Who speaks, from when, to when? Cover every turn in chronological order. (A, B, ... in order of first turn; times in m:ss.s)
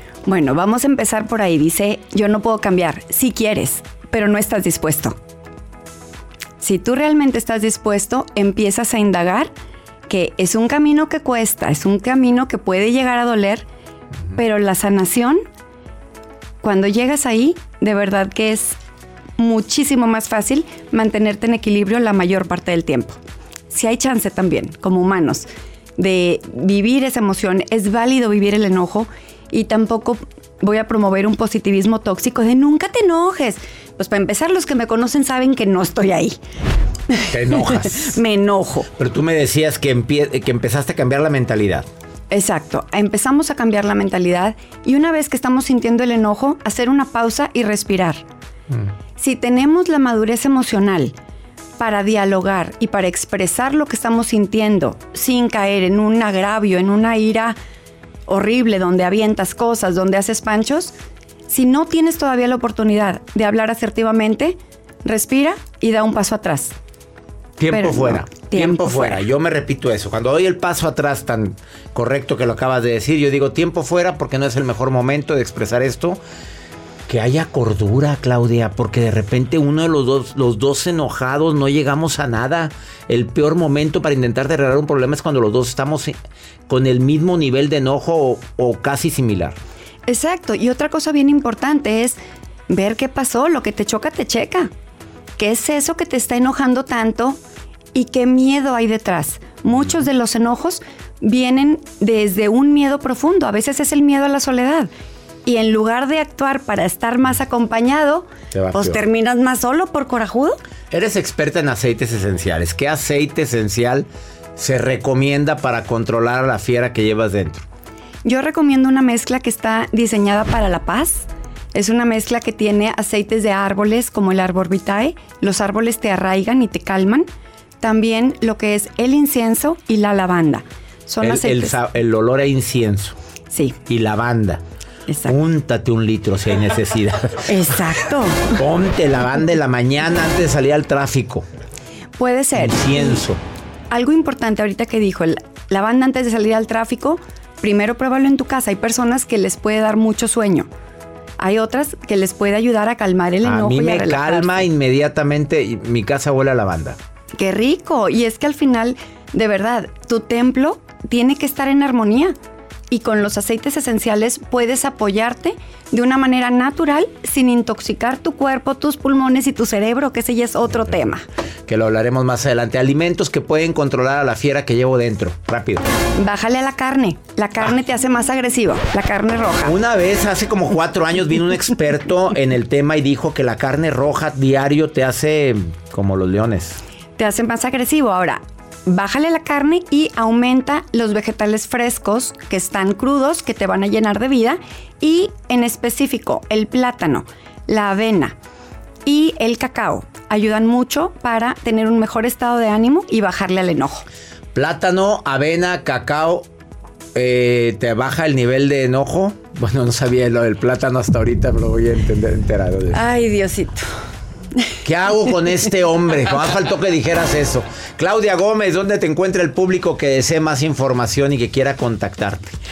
0:00.3-0:05.2 A
0:06.6-0:09.5 A
0:10.1-0:13.7 A
0:14.4-0:15.4 A
0:16.6-0:18.8 A
0:19.4-0:23.2 A
0:23.7-0:36.4 A
0:37.1-0:38.9 A
0:37.3-0:38.2 B
0:39.0-0:41.9 B
0:42.3-0:48.2 A
0:49.2-0:51.1 A
0:51.8-0:57.6 A
0:58.3-1:00.9 A
1:01.5-1:06.8 A
1:07.6-1:16.2 B
1:07.7-1:09.3 A
1:17.1-1:26.2 B
1:26.7-1:29.6 B
1:30.1-1:32.2 A
1:32.7-1:34.7 A
1:35.4-1:37.4 A
1:37.9-1:44.9 A
1:45.5-1:50.6 A
1:48.5-1:49.0 B
1:50.9-1:57.6 B
1:58.2-2:07.3 A
2:07.8-2:11.8 A
2:11.2-2:13.2 B
2:13.5-2:13.8 A
2:13.8-2:14.6 B
2:15.1-2:15.4 A
2:15.3-2:17.4 B
2:17.5-2:18.5 A
2:18.6-2:21.4 B
2:22.2-2:23.2 A
2:22.6-2:23.4 B
2:23.9-2:30.7 A
2:31.4-2:34.7 A
2:33.4-2:37.0 B
2:37.4-2:42.4 A
2:42.9-2:51.2 A
2:51.7-2:55.8 B
2:56.2-2:59.8 A
2:59.6-3:06.8 B
3:07.2-3:18.4 A
3:19.1-3:24.0 A
3:24.5-3:26.5 B
3:27.2-3:33.0 B
3:32.9-3:33.9 A
3:34.8-3:42.6 B